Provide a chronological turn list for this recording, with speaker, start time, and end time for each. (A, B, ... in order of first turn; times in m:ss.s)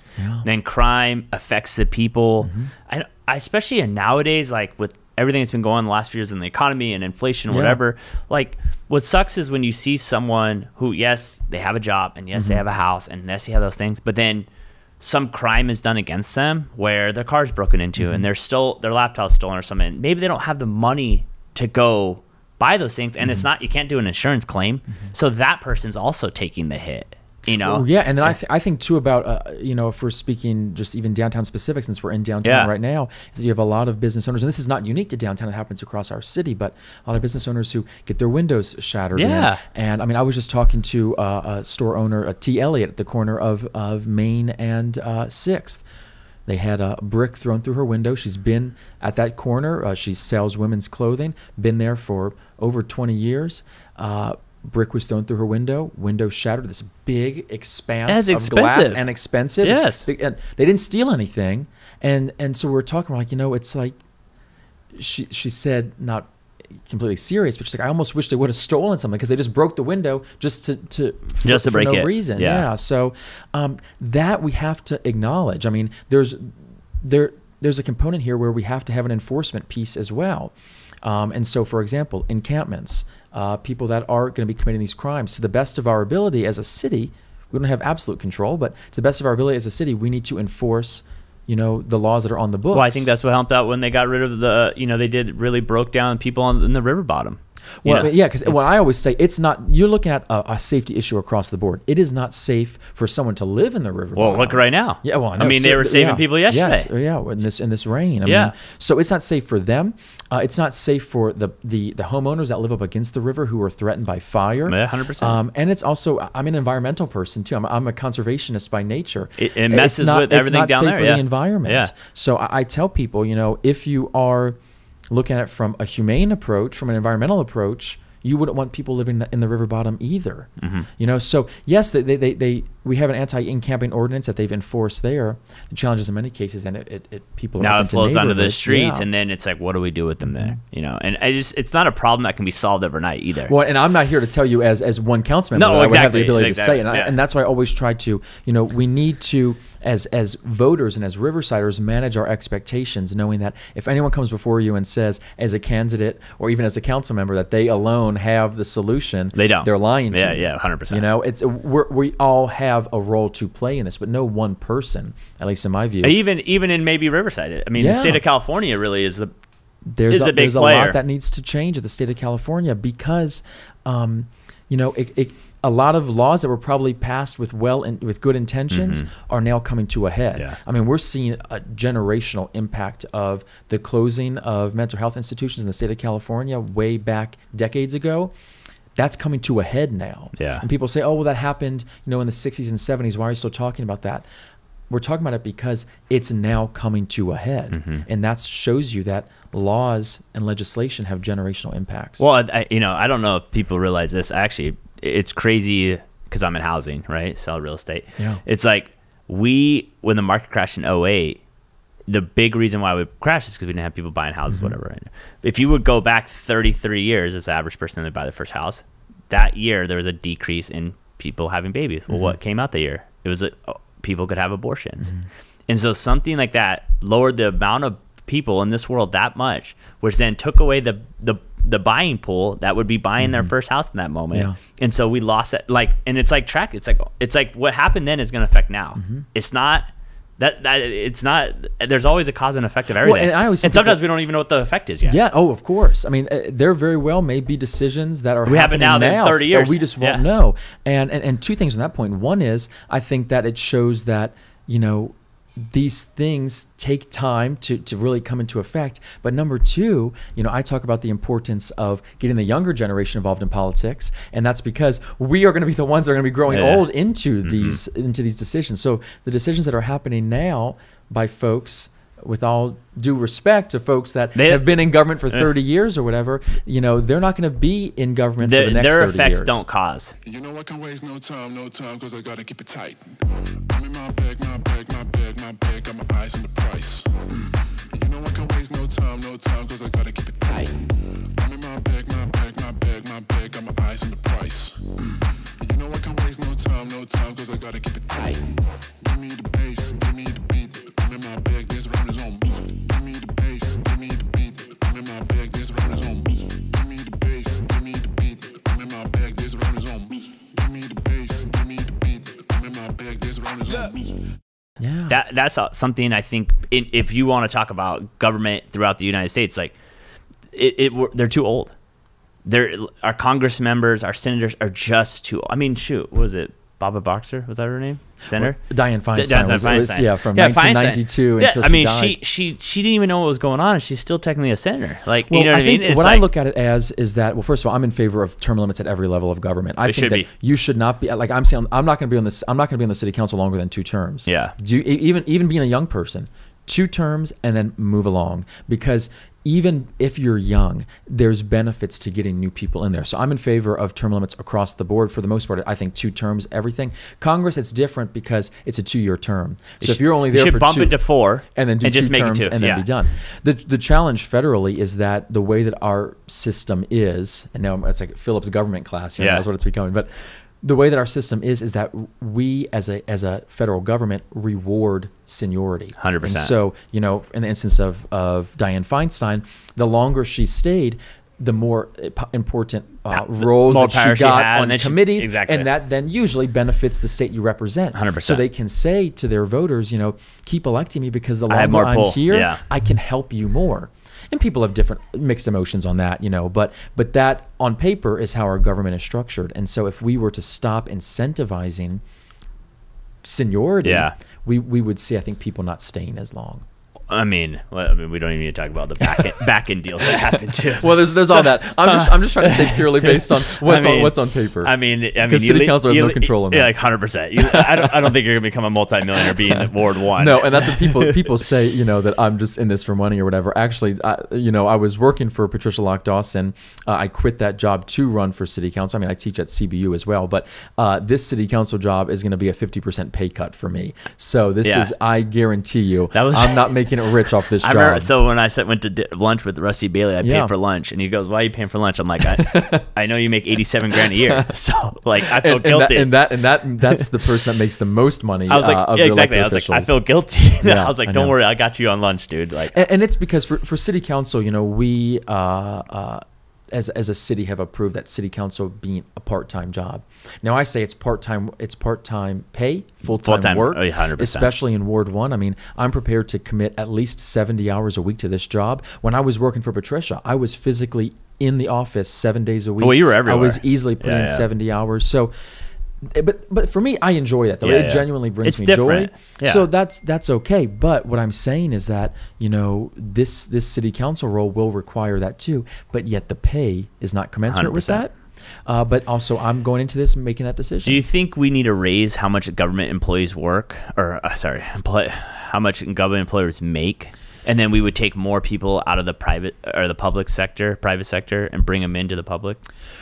0:00.2-0:00.5 A
0:00.4-0:14.5 B
0:02.4-0:02.7 A
0:07.5-0:07.8 A
0:12.3-0:12.6 A
0:15.0-0:28.3 B
0:18.0-0:18.3 A
0:23.2-0:23.5 A
0:27.5-0:45.8 A
0:32.4-0:32.7 B
0:39.2-0:39.6 B
0:46.5-1:04.0 A
0:58.1-0:59.0 B
0:59.6-1:00.1 B
1:05.0-1:33.1 A
1:11.4-1:12.7 B
1:32.7-1:38.5 B
1:37.8-2:04.6 A
1:44.2-1:46.9 B
1:48.2-1:48.6 B
1:54.7-1:55.4 B
1:59.4-2:01.9 B
2:05.1-2:19.1 A
2:10.6-2:10.9 B
2:17.6-2:23.5 B
2:20.2-2:20.5 A
2:23.5-2:46.2 A
2:25.6-2:27.2 B
2:39.4-2:41.0 B
2:46.0-2:49.3 B
2:47.8-2:48.2 A
2:49.9-3:08.3 A
2:50.1-2:51.0 B
2:58.7-2:59.1 B
3:09.0-3:14.2 A
3:10.4-3:10.6 B
3:14.9-3:22.2 A
3:17.7-3:18.0 B
3:22.2-3:31.4 B
3:32.1-3:45.2 B
3:34.5-3:34.8 A
3:42.1-3:42.4 A
3:45.7-3:59.9 B
3:53.2-3:53.5 A
3:54.3-3:54.6 A
3:59.0-3:59.2 A
4:00.4-4:05.2 B
4:03.0-4:04.0 A
4:05.0-4:39.6 A
4:08.5-4:10.2 B
4:26.5-4:26.8 B
4:27.5-4:27.8 B
4:34.4-4:34.7 B
4:38.4-4:40.2 B
4:40.2-5:14.3 C
5:14.8-5:15.2 A
5:15.1-5:19.7 B
5:20.5-5:21.7 B
5:22.4-5:28.6 B
5:28.3-5:32.2 A
5:29.2-5:36.2 B
5:35.3-6:42.0 A
5:39.8-5:40.3 B
5:44.3-5:44.6 B
5:59.8-6:02.9 B
6:09.2-6:09.4 B
6:16.0-6:16.5 B
6:23.4-6:25.7 B
6:27.9-6:28.4 B
6:31.5-6:32.6 B
6:43.2-6:46.6 A
6:43.8-6:44.2 B
6:47.1-7:01.2 B
6:49.0-6:49.3 A
6:50.7-6:56.8 A
6:57.4-6:58.1 A
6:59.2-7:18.1 A
7:14.6-7:14.9 B
7:16.1-7:16.9 B
7:17.6-7:26.2 B
7:20.2-7:20.5 A
7:22.4-7:22.8 A
7:24.0-7:24.5 A
7:25.2-7:30.0 A
7:28.5-7:32.8 B
7:30.6-7:31.4 A
7:32.7-7:55.3 A
7:43.0-7:44.5 B
7:52.8-7:54.5 B
7:56.0-8:08.1 A
7:57.6-7:59.6 B
8:07.5-8:08.1 B
8:08.7-8:11.0 A
8:10.8-8:22.6 B